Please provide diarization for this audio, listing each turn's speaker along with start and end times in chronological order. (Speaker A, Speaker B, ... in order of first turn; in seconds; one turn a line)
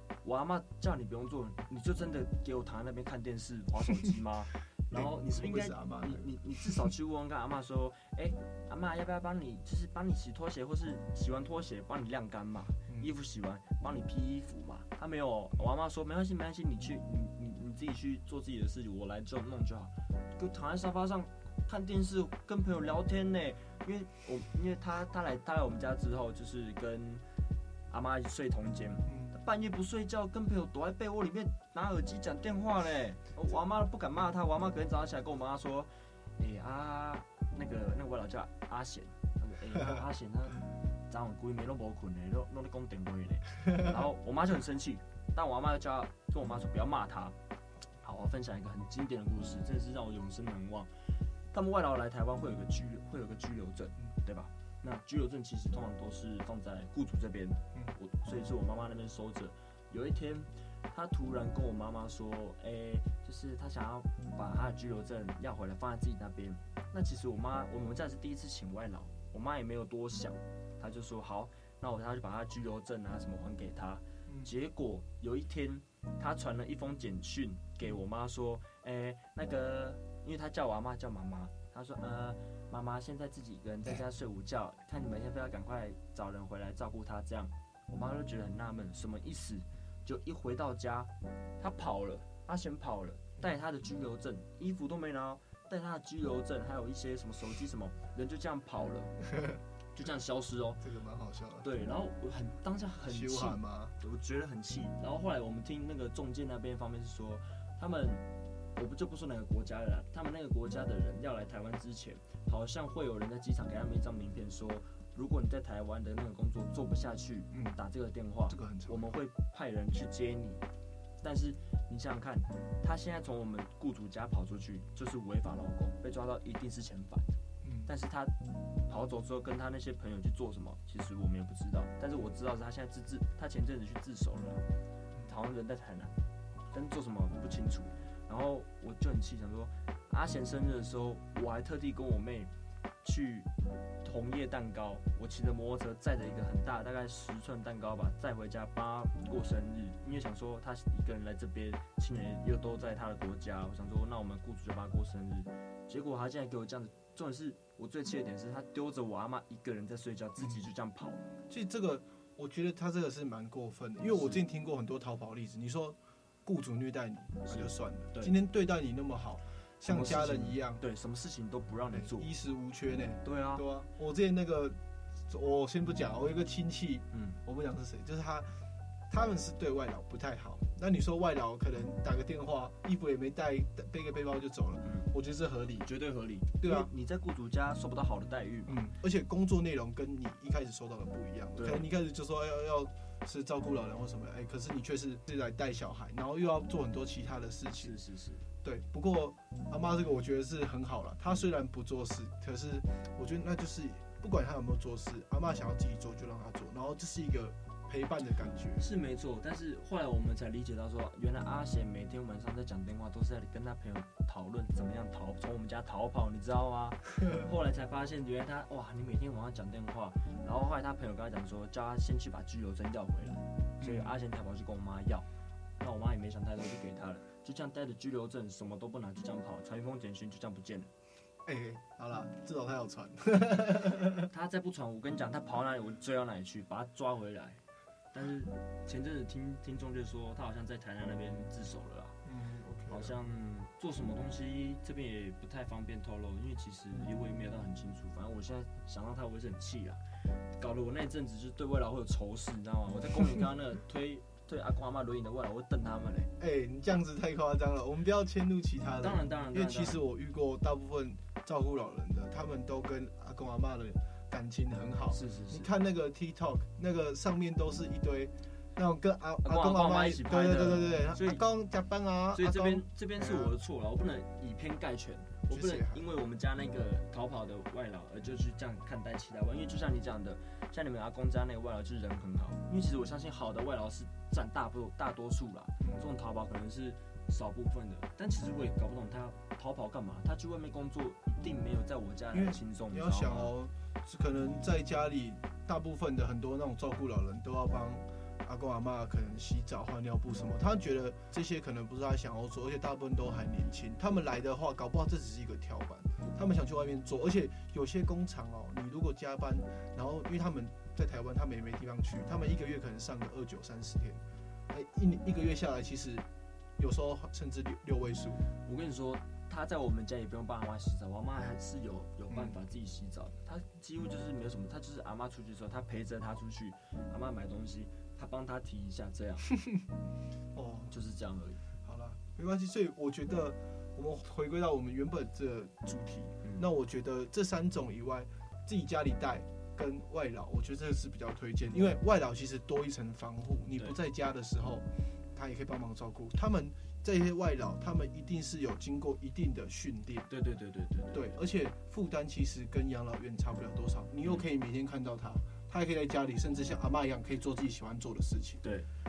Speaker A: 0.2-27.2
Speaker B: 4.9-6.9
Speaker A: 27.9-47.4
Speaker B: 29.1-29.3
Speaker A: 48.0-50.9
Speaker A: 51.5-99.2
Speaker B: 74.3-74.5
Speaker A: 100.0-100.8
Speaker B: 100.8-101.7
Speaker A: 101.6-108.2
Speaker B: 103.0-103.9
Speaker A: 108.8-120.7
Speaker B: 117.5-117.8
Speaker B: 118.5-119.1
Speaker A: 121.2-127.3
Speaker B: 127.6-127.9
Speaker A: 127.8-128.3
Speaker A: 128.9-134.6
Speaker A: 135.3-136.1
Speaker A: 136.7-142.5
Speaker A: 143.0-143.5
Speaker A: 144.0-161.2
Speaker B: 161.5-170.8
Speaker A: 164.1-164.4
Speaker A: 167.4-168.3
Speaker A: 169.9-172.3
Speaker B: 171.9-178.5
Speaker A: 173.2-173.6
Speaker A: 177.1-177.4
Speaker B: 179.1-185.9
Speaker A: 185.8-188.8
Speaker B: 186.6-186.9
Speaker B: 188.7-197.9
Speaker A: 191.6-191.8
Speaker A: 197.8-198.4
Speaker B: 198.6-208.8
Speaker A: 208.8-225.2
Speaker B: 223.8-224.1
Speaker A: 225.8-230.9
Speaker B: 231.4-234.3
Speaker A: 234.3-237.6
Speaker A: 238.1-242.2
Speaker B: 242.2-243.1
Speaker A: 242.9-250.0
Speaker A: 250.6-256.3
Speaker B: 256.4-273.5
Speaker A: 259.0-260.0
Speaker A: 265.1-265.7
Speaker A: 269.4-271.4
Speaker A: 272.3-293.5
Speaker B: 275.5-276.0
Speaker B: 285.8-286.1
Speaker B: 292.3-316.2
Speaker B: 316.8-318.4
Speaker A: 318.6-329.5
Speaker B: 322.3-322.6
Speaker B: 330.5-330.9
Speaker A: 330.9-331.6
Speaker B: 331.8-350.3
Speaker A: 350.3-351.3
Speaker B: 351.1-358.6
Speaker A: 358.6-358.9